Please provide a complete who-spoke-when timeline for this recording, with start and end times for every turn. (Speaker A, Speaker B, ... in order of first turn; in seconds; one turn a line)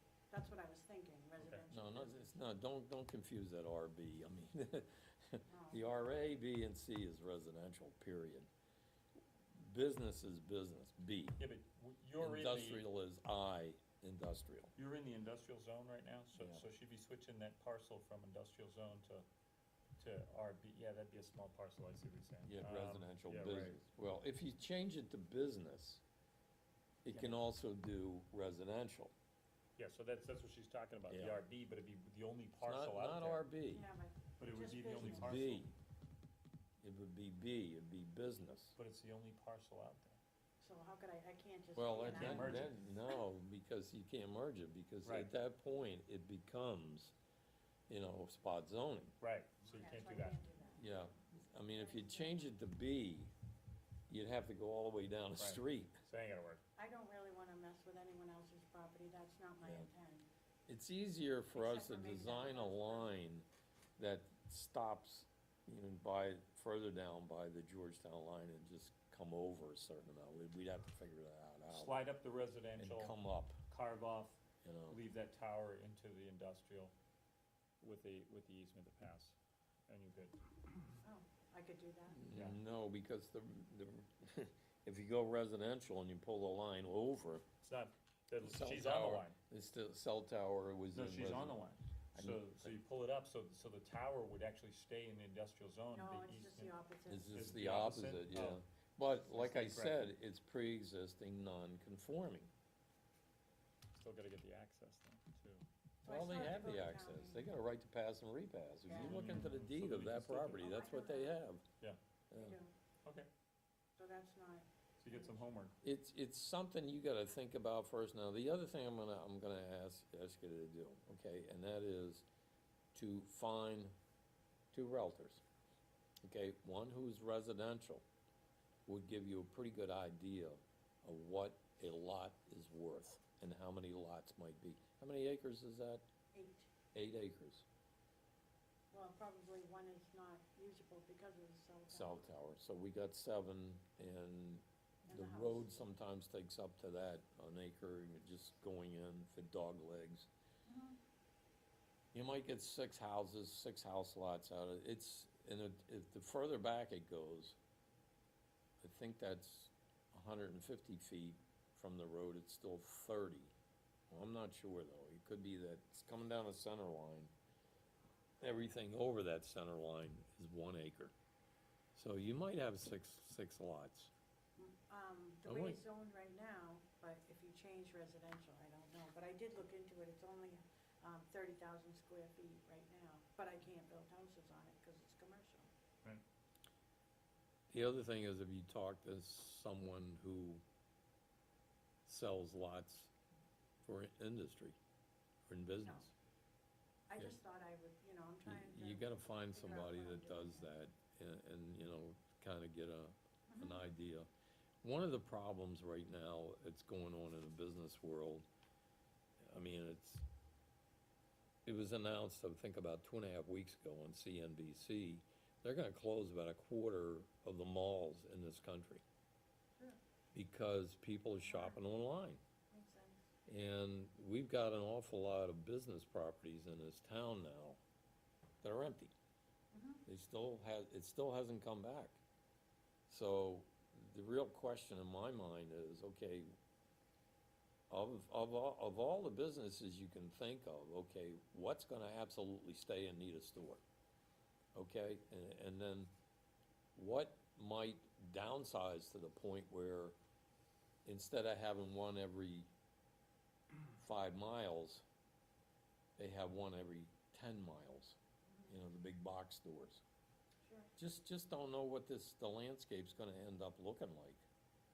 Speaker A: 0.3-2.2
Speaker B: 1.7-8.5
Speaker A: 5.5-5.8
Speaker B: 9.5-11.4
Speaker C: 11.4-12.8
Speaker B: 12.2-14.7
Speaker C: 14.7-19.2
Speaker B: 16.4-16.6
Speaker C: 20.0-23.8
Speaker B: 22.4-26.0
Speaker B: 27.0-29.1
Speaker C: 27.1-27.4
Speaker C: 29.8-33.4
Speaker B: 31.1-31.4
Speaker B: 32.6-33.8
Speaker A: 33.7-35.4
Speaker C: 34.4-35.7
Speaker B: 34.9-35.7
Speaker B: 36.8-38.7
Speaker C: 38.8-40.2
Speaker A: 40.6-43.2
Speaker B: 41.8-47.1
Speaker C: 42.0-42.7
Speaker C: 45.0-45.3
Speaker B: 47.9-49.1
Speaker C: 49.2-50.4
Speaker A: 49.6-50.9
Speaker B: 50.8-53.3
Speaker A: 51.7-52.6
Speaker B: 54.1-55.9
Speaker C: 55.4-56.6
Speaker A: 56.8-60.3
Speaker B: 59.6-59.9
Speaker B: 60.7-63.5
Speaker A: 61.5-63.1
Speaker B: 64.0-72.0
Speaker C: 71.7-73.2
Speaker B: 72.8-73.6
Speaker C: 73.7-76.9
Speaker B: 74.6-75.0
Speaker C: 77.8-79.4
Speaker C: 79.9-80.4
Speaker A: 81.0-82.2
Speaker B: 82.1-87.5
Speaker C: 82.3-82.6
Speaker C: 87.6-89.4
Speaker B: 88.4-91.6
Speaker C: 90.9-96.8
Speaker B: 92.2-92.7
Speaker A: 95.9-97.4
Speaker B: 97.1-102.5
Speaker C: 97.3-98.6
Speaker C: 99.3-100.1
Speaker C: 103.9-105.7
Speaker A: 106.0-107.5
Speaker B: 106.0-111.7
Speaker A: 108.9-109.5
Speaker C: 108.9-110.7
Speaker A: 110.6-111.4
Speaker B: 112.3-112.6
Speaker A: 112.3-112.7
Speaker A: 114.0-115.4
Speaker C: 115.0-115.8
Speaker B: 115.8-122.2
Speaker B: 122.9-123.9
Speaker B: 124.7-125.4
Speaker B: 126.2-128.0
Speaker B: 128.8-136.0
Speaker A: 136.3-136.7
Speaker B: 136.9-137.6
Speaker A: 138.9-142.2
Speaker B: 141.9-150.3
Speaker A: 145.0-145.8
Speaker A: 150.7-151.0
Speaker B: 152.1-157.6
Speaker B: 158.8-163.5
Speaker B: 164.1-167.3
Speaker B: 168.4-171.1
Speaker B: 171.9-174.1
Speaker A: 174.6-185.7
Speaker B: 175.4-175.8
Speaker B: 187.7-190.6
Speaker B: 192.1-193.1
Speaker B: 193.8-194.8
Speaker B: 195.5-196.1
Speaker A: 195.8-196.1
Speaker A: 197.1-200.7
Speaker B: 198.4-204.3
Speaker A: 203.5-203.9
Speaker B: 204.8-208.4
Speaker B: 209.4-210.2
Speaker B: 211.7-219.0
Speaker B: 220.3-222.4
Speaker A: 221.4-221.8
Speaker A: 222.7-223.2
Speaker B: 223.5-227.8
Speaker B: 228.6-229.1
Speaker A: 229.7-230.0
Speaker B: 230.1-232.2
Speaker B: 233.1-236.5
Speaker B: 237.9-243.8
Speaker B: 244.8-246.1
Speaker B: 246.9-250.2
Speaker B: 251.1-252.7
Speaker B: 254.0-255.0
Speaker B: 256.2-258.2
Speaker A: 258.5-258.8
Speaker B: 258.7-260.0
Speaker A: 260.6-260.9
Speaker B: 261.0-264.4